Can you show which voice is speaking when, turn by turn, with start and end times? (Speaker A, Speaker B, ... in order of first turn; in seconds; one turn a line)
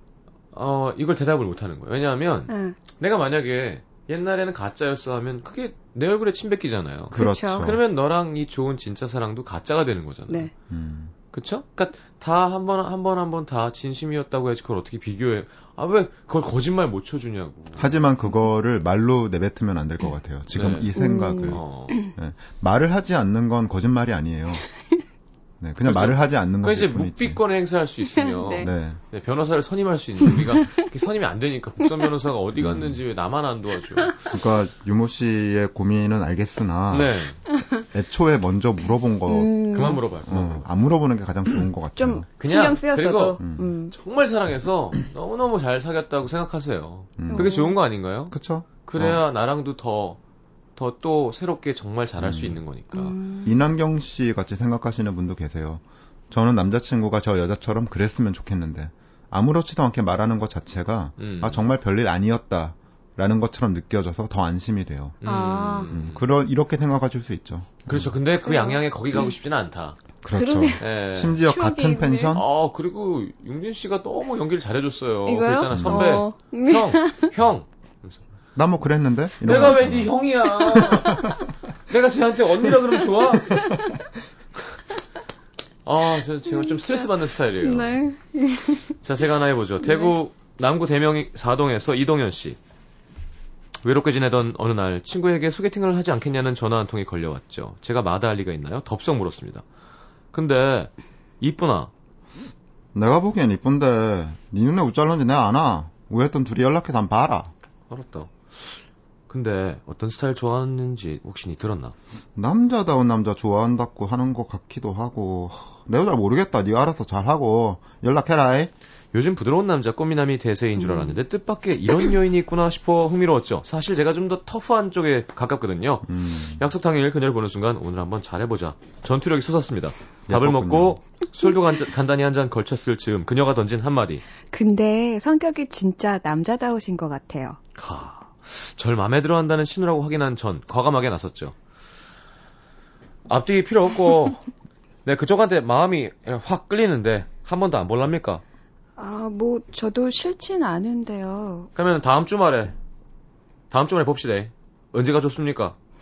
Speaker A: 0.5-10.5
Speaker B: 2.5-2.8
Speaker C: 7.1-7.8
Speaker B: 7.2-7.7
Speaker C: 10.7-11.1
Speaker A: 11.3-18.0
Speaker C: 17.8-24.6
Speaker A: 20.5-20.9
Speaker B: 21.0-22.1
Speaker A: 21.5-22.0
Speaker C: 25.6-27.4
Speaker A: 25.8-34.2
Speaker B: 28.2-28.7
Speaker C: 28.6-29.0
Speaker B: 30.4-30.8
Speaker C: 32.6-33.0
Speaker C: 34.3-37.2
Speaker A: 36.9-37.4
Speaker C: 37.9-42.3
Speaker B: 39.3-40.0
Speaker A: 39.7-40.7
Speaker B: 42.0-43.9
Speaker A: 42.4-48.3
Speaker C: 43.4-43.7
Speaker C: 47.2-47.6
Speaker B: 47.3-47.8
Speaker C: 48.3-49.2
Speaker A: 48.9-50.2
Speaker A: 50.8-53.2
Speaker C: 52.2-52.6
Speaker B: 52.9-53.5
Speaker C: 53.5-65.2
Speaker A: 61.2-61.7
Speaker A: 65.2-66.2
Speaker B: 65.2-65.9
Speaker C: 65.9-68.2
Speaker A: 67.9-70.0
Speaker B: 68.5-68.8
Speaker C: 70.2-72.5
Speaker B: 70.3-70.8
Speaker A: 70.8-71.4
Speaker B: 71.4-72.4
Speaker A: 72.3-78.2
Speaker B: 75.3-77.3
Speaker C: 75.7-76.2
Speaker C: 78.6-80.2
Speaker A: 79.4-83.8
Speaker C: 80.8-81.4
Speaker A: 85.8-88.0
Speaker B: 86.5-87.0
Speaker B: 87.6-89.0
Speaker A: 89.0-92.6
Speaker B: 89.8-90.2
Speaker A: 93.8-99.7
Speaker A: 100.3-101.9
Speaker C: 102.9-107.5
Speaker A: 107.9-112.0
Speaker C: 112.3-118.7
Speaker A: 119.1-134.2
Speaker B: 120.8-121.2
Speaker C: 126.1-126.6
Speaker C: 130.3-131.0
Speaker B: 134.5-137.6
Speaker A: 137.8-141.6
Speaker A: 143.3-144.4
Speaker A: 145.1-148.4
Speaker B: 149.0-151.7
Speaker A: 151.8-152.8
Speaker A: 153.7-155.8